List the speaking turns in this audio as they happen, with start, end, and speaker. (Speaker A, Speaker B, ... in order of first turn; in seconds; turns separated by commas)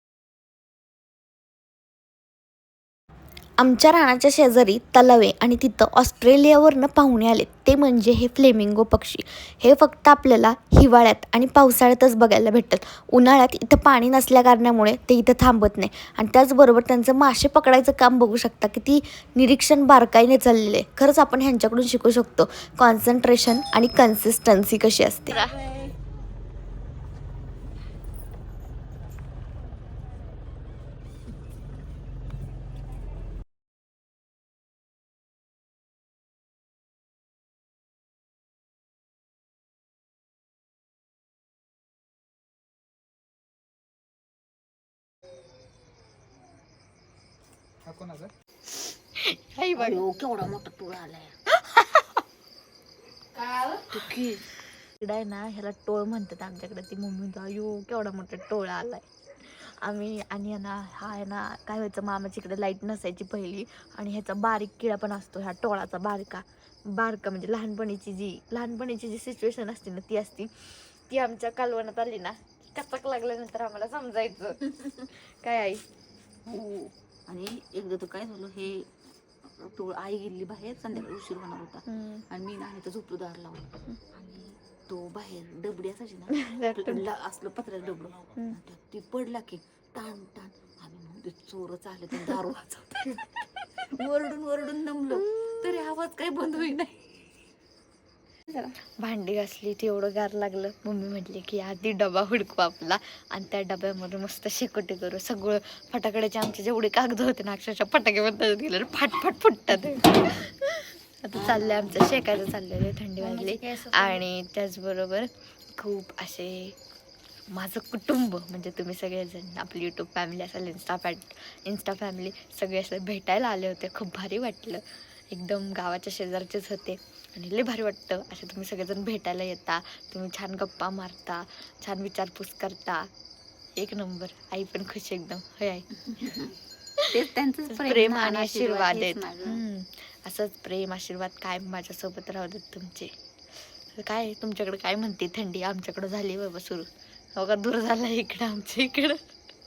Speaker A: 3.6-25.6, Speaker B: 25.3-25.9, Speaker A: 49.2-50.0, Speaker B: 49.8-51.4, Speaker A: 51.5-52.2, Speaker B: 53.4-54.5, Speaker A: 55.0-75.8, Speaker B: 76.5-78.9, Speaker B: 79.5-97.0, Speaker A: 81.9-82.2, Speaker A: 86.3-87.0, Speaker A: 95.2-95.5, Speaker A: 98.8-116.8, Speaker B: 111.3-112.1, Speaker B: 113.2-114.2, Speaker A: 117.5-133.1, Speaker A: 133.8-135.9, Speaker B: 135.9-136.6, Speaker B: 137.1-139.6, Speaker A: 137.7-143.1, Speaker A: 143.9-149.2